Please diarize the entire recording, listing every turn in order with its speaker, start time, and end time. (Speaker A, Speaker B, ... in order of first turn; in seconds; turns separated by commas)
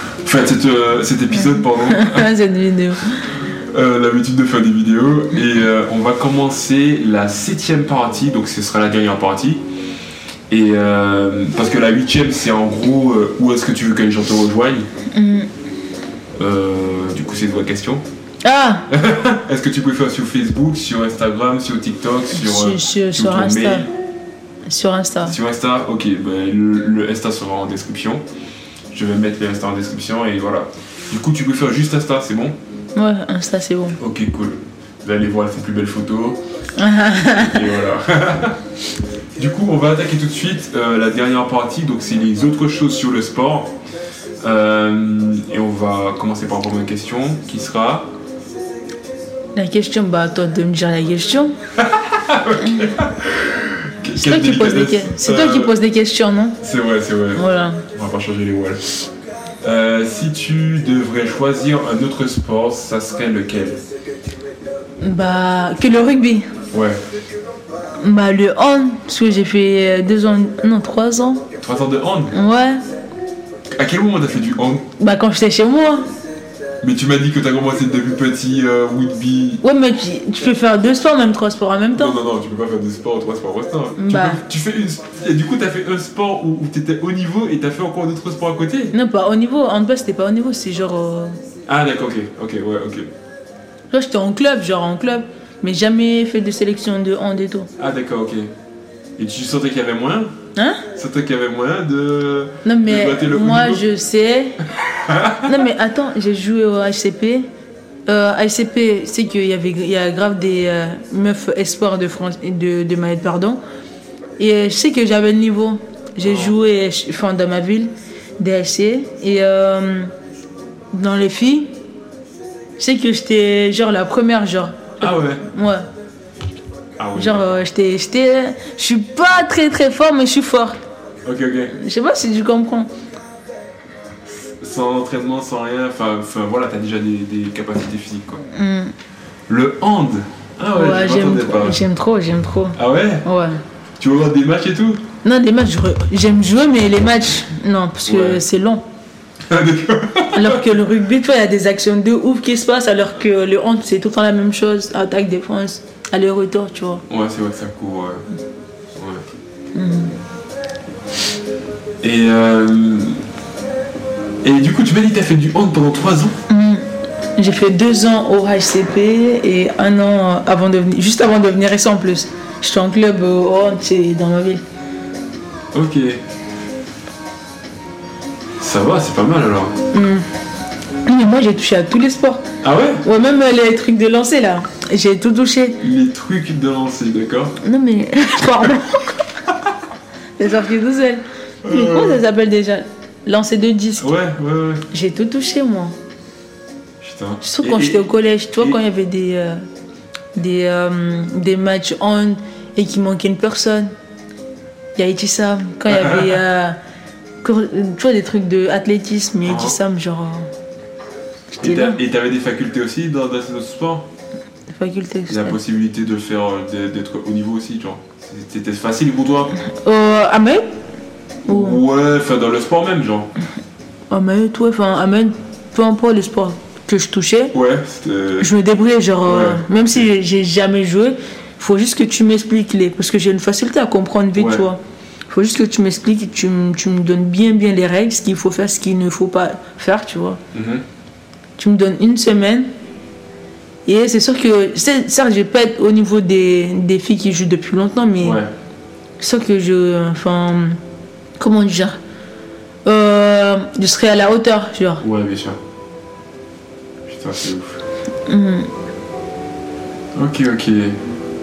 Speaker A: 0.2-2.3, Speaker B: 1.3-3.2, Speaker A: 3.3-9.6, Speaker A: 10.5-14.9, Speaker B: 15.1-15.5, Speaker A: 16.4-18.0, Speaker B: 18.4-18.9, Speaker A: 18.9-23.9, Speaker B: 22.3-23.9, Speaker B: 24.6-25.4, Speaker A: 25.2-28.2, Speaker A: 28.9-32.6, Speaker B: 32.9-34.0, Speaker A: 34.0-36.4, Speaker B: 36.8-37.7, Speaker A: 37.3-38.6, Speaker A: 39.4-43.7, Speaker A: 44.4-48.1, Speaker B: 49.5-51.5, Speaker A: 51.8-55.7, Speaker B: 54.1-56.6, Speaker A: 56.6-58.8, Speaker B: 57.3-57.8, Speaker A: 59.6-63.8, Speaker B: 65.0-66.5, Speaker A: 66.7-67.0, Speaker B: 68.0-71.4, Speaker A: 71.6-72.3, Speaker B: 72.3-72.8, Speaker A: 73.8-74.9, Speaker B: 75.0-76.1, Speaker A: 76.8-79.6, Speaker B: 79.6-82.2, Speaker A: 81.9-88.9, Speaker B: 84.0-84.4, Speaker B: 88.9-91.3, Speaker A: 91.7-93.1, Speaker B: 93.9-97.7, Speaker A: 97.8-98.5, Speaker A: 99.2-100.3, Speaker B: 100.5-100.8, Speaker A: 100.9-103.8, Speaker B: 102.6-104.6, Speaker A: 104.8-105.5, Speaker B: 105.4-107.5, Speaker B: 108.1-113.6, Speaker B: 114.4-120.1, Speaker A: 116.2-116.5, Speaker B: 120.9-121.7, Speaker B: 122.8-125.8, Speaker A: 125.0-125.4, Speaker A: 127.0-127.6, Speaker B: 127.1-130.8, Speaker A: 131.2-131.7, Speaker B: 131.7-132.9, Speaker A: 134.3-138.4, Speaker B: 138.5-138.9, Speaker A: 139.5-141.8, Speaker B: 140.7-143.6, Speaker A: 142.8-143.2, Speaker A: 144.0-145.0, Speaker B: 145.2-148.8, Speaker A: 148.1-148.4, Speaker A: 149.5-150.6, Speaker B: 150.3-157.0, Speaker A: 157.1-158.2, Speaker A: 158.9-159.2, Speaker B: 159.7-160.1, Speaker A: 162.0-163.2, Speaker A: 164.4-166.3, Speaker B: 166.5-166.8, Speaker B: 167.4-174.6, Speaker A: 175.7-176.2, Speaker A: 178.6-179.8, Speaker B: 179.9-180.3, Speaker B: 181.1-182.4, Speaker A: 182.6-183.0, Speaker B: 183.0-185.8, Speaker A: 185.8-187.6, Speaker B: 187.6-189.2, Speaker B: 190.4-194.1, Speaker A: 191.6-192.2, Speaker A: 194.0-194.8, Speaker B: 194.9-195.9, Speaker A: 197.0-198.1, Speaker B: 197.4-199.6, Speaker B: 200.3-203.9, Speaker B: 204.9-206.8, Speaker A: 205.9-206.3, Speaker B: 207.4-210.5, Speaker A: 209.4-209.8, Speaker B: 211.6-212.0, Speaker A: 211.6-214.1, Speaker B: 214.7-215.6, Speaker A: 215.3-219.5, Speaker B: 219.7-220.7, Speaker B: 221.4-221.8, Speaker A: 221.5-223.3, Speaker B: 224.1-227.5, Speaker A: 227.5-228.5, Speaker B: 228.4-240.4, Speaker A: 229.2-230.0, Speaker A: 234.3-234.7, Speaker A: 240.5-240.8, Speaker B: 241.6-242.7, Speaker B: 243.8-248.4, Speaker A: 248.2-248.5, Speaker B: 249.2-250.8, Speaker B: 251.4-252.0, Speaker B: 252.8-255.0, Speaker A: 255.0-255.6, Speaker A: 257.1-257.8, Speaker B: 258.3-258.7, Speaker A: 260.1-261.0